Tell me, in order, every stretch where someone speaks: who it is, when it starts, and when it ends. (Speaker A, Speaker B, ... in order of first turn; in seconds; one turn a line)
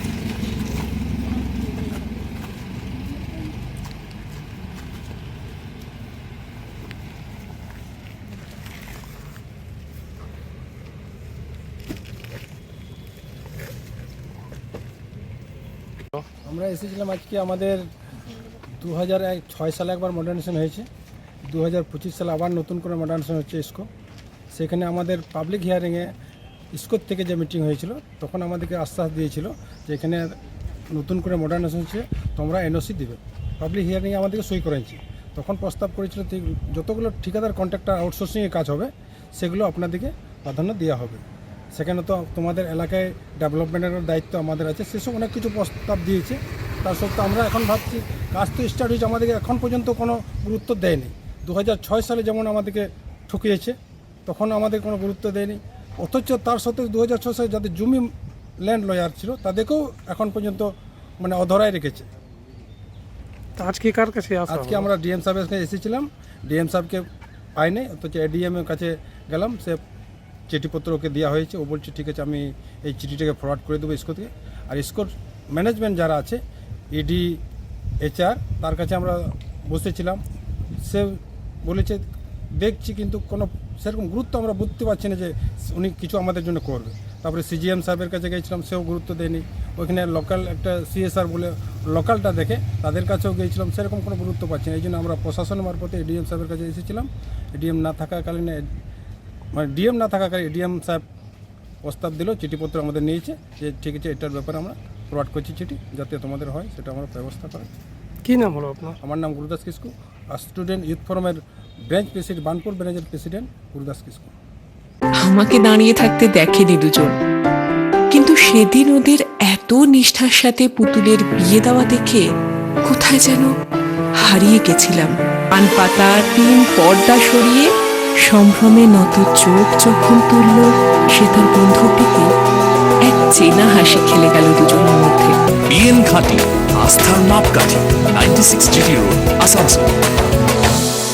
Speaker A: 16.4-17.8
Speaker A: 18.8-20.9
Speaker A: 21.5-23.9
Speaker A: 24.5-26.1
Speaker A: 26.7-30.3
Speaker A: 30.9-41.2
Speaker A: 41.7-53.7
Speaker A: 54.2-58.1
Speaker A: 58.6-62.1
Speaker B: 63.5-64.8
Speaker A: 64.5-67.0
Speaker A: 67.6-69.8
Speaker A: 70.5-76.4
Speaker A: 76.9-77.4
Speaker A: 78.0-80.2
Speaker A: 80.8-82.0
Speaker A: 82.6-98.6
Speaker A: 99.5-101.0
Speaker A: 101.8-107.7
Speaker B: 108.2-109.0
Speaker A: 109.0-114.3
Speaker C: 115.2-117.2
Speaker C: 118.1-122.2
Speaker C: 122.8-123.5
Speaker C: 124.2-127.7
Speaker C: 128.3-132.3
Speaker C: 133.0-135.3
Speaker D: 135.7-139.9